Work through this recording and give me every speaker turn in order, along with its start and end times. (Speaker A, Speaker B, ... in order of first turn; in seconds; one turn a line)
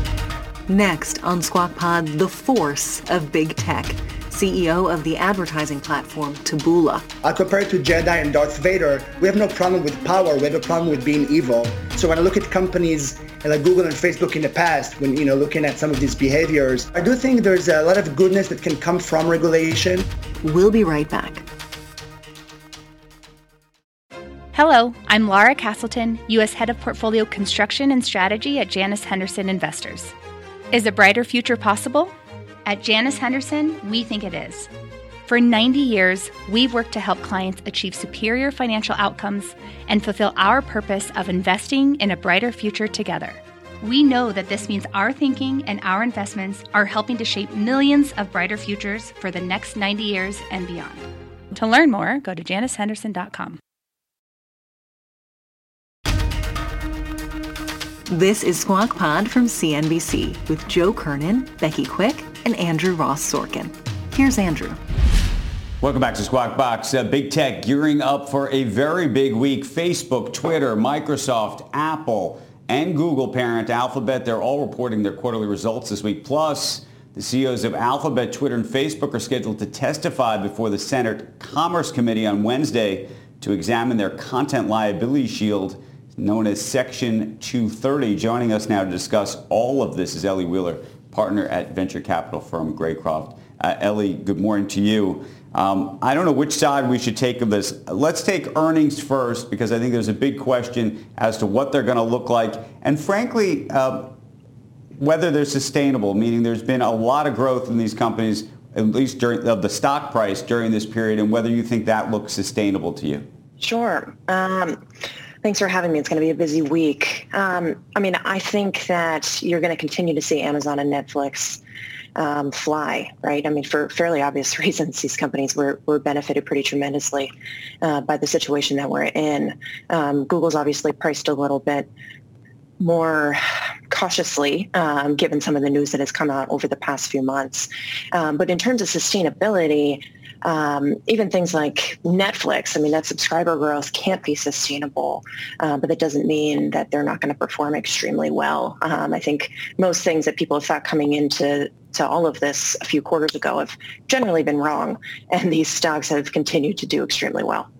Speaker A: 0.7-7.0
Speaker B: 7.2-20.1
Speaker A: 20.4-21.4
Speaker C: 24.5-30.1
Speaker C: 30.7-32.1
Speaker C: 32.6-34.7
Speaker C: 35.3-53.6
Speaker A: 58.1-64.8
Speaker D: 65.8-104.1
Speaker D: 105.0-113.3
Speaker E: 113.6-114.8
Speaker E: 115.4-121.6
Speaker E: 122.2-131.9
Speaker E: 132.8-157.7